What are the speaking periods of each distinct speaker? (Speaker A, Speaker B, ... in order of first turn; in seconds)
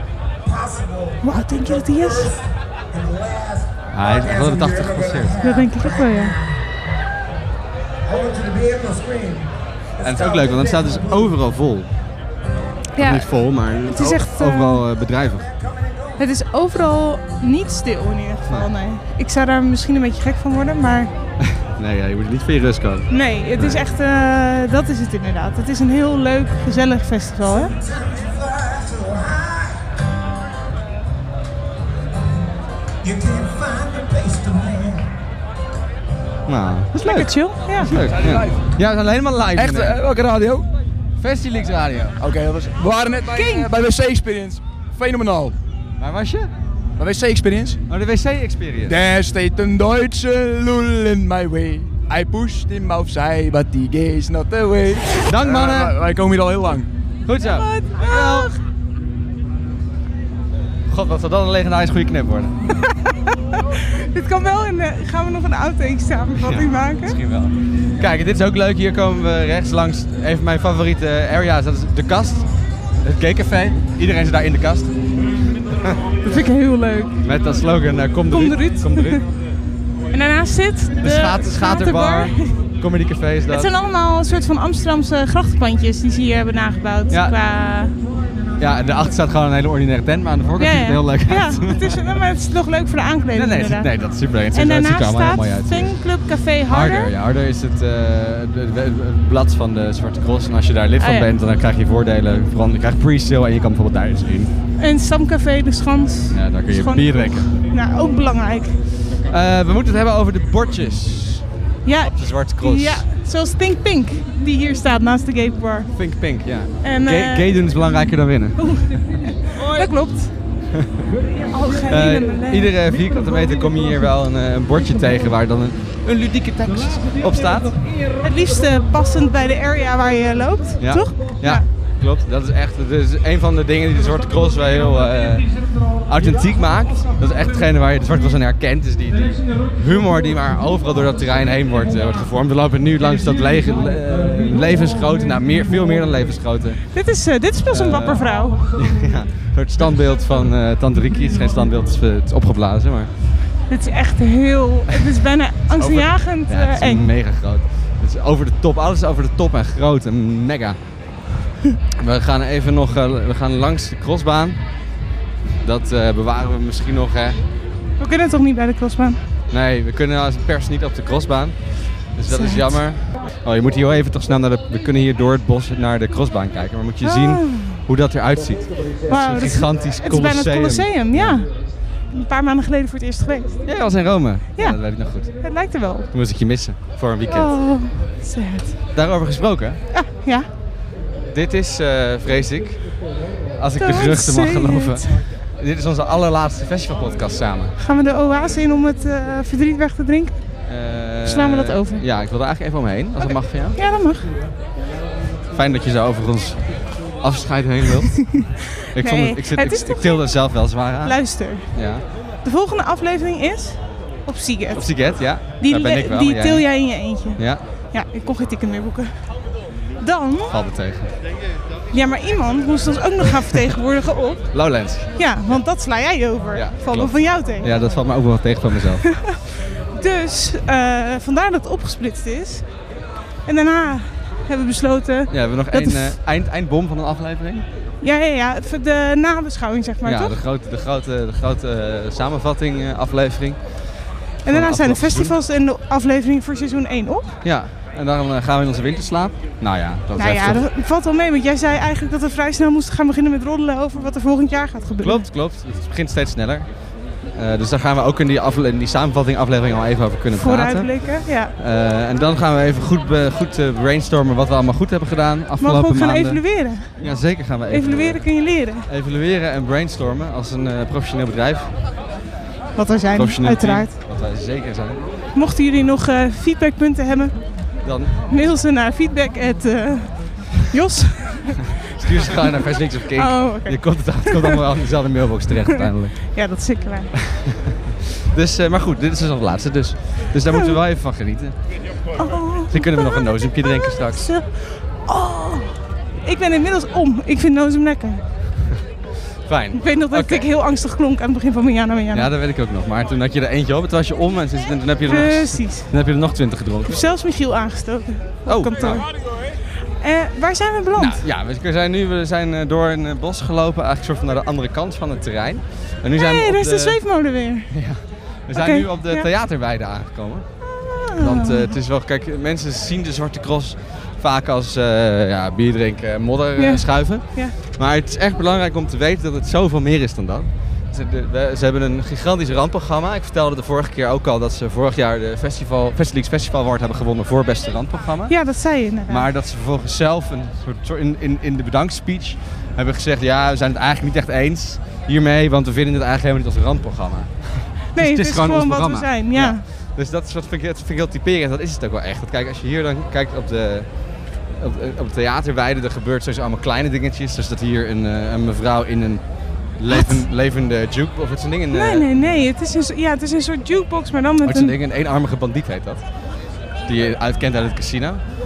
Speaker A: 0.5-6.6, 8.1-11.3, 15.3-16.2, 27.5-29.8, 33.0-35.1
Speaker B: 1.2-2.3, 5.4-6.3, 13.0-13.3, 13.9-14.8, 16.2-21.1, 23.1-27.7, 37.0-37.9, 43.3-43.7, 57.4-58.6, 63.5-67.2, 76.2-77.2, 78.3-79.2, 80.1-82.6, 83.5-88.0, 90.6-93.9, 94.5-97.1, 101.0-101.3, 104.8-108.8, 111.8-115.9, 116.8-117.6, 118.6-120.3, 121.5-122.7, 128.2-131.7, 146.9-148.6, 153.7-157.1, 168.0-169.2, 172.3-172.8, 177.0-177.8, 179.1-181.5, 182.1-183.6, 185.4-186.1, 187.3-188.8, 189.9-190.5, 193.8-195.2, 197.8-200.3, 201.2-202.0, 203.2-204.3, 208.2-210.3, 211.0-211.7, 212.4-219.2, 220.0-220.5, 221.9-224.5, 225.2-227.7, 229.1-229.4, 229.9-232.7, 233.5-236.2, 238.0-240.3, 244.4-247.4, 250.2-255.3, 260.3-261.5, 265.6-267.1, 267.7-268.9, 272.8-273.9, 275.4-277.4, 278.3-281.7, 283.2-284.6, 285.7-287.1, 292.2-298.2, 299.7-302.3, 305.1-305.9, 306.9-309.1, 310.0-311.2, 316.2-317.7, 318.6-319.3, 320.6-321.8, 326.6-327.6, 338.3-339.2, 347.9-349.6, 359.9-360.2, 361.7-364.7
Speaker C: 3.9-5.4, 10.0-11.9, 13.0-15.5, 21.4-23.8, 36.5-40.0, 41.2-42.2, 46.0-46.5, 47.9-49.0, 55.3-56.0, 57.3-58.5, 60.9-62.6, 66.4-72.5, 73.0-75.0, 77.2-79.2, 81.0-83.7, 88.6-92.0, 93.3-96.1, 96.7-104.5, 106.3-107.5, 109.2-111.4, 112.0-113.0, 115.9-118.7, 121.9-127.8, 130.8-146.8, 147.7-153.1, 155.7-160.8, 162.0-164.6, 165.6-167.4, 169.5-181.4, 183.7-185.5, 186.1-187.6, 188.9-189.8, 191.3-193.1, 193.6-197.8, 200.7-203.8, 205.5-212.0, 214.7-216.7, 217.4-217.6, 220.5-221.1, 224.5-225.2, 226.6-229.1, 235.3-237.7, 240.1-245.4, 247.4-250.6, 255.0-256.8, 257.4-271.8, 273.1-275.0, 277.8-278.1, 282.0-286.4, 287.2-287.5, 288.3-291.6, 292.7-294.3, 299.5-300.5, 302.1-307.0, 308.5-309.0, 311.0-317.0, 317.7-320.5, 321.2-353.9, 354.5-362.4, 364.4-366.0, 366.9-368.2
Speaker D: 37.9-38.7, 39.5-40.7, 42.2-45.5, 47.0-47.8, 48.9-56.9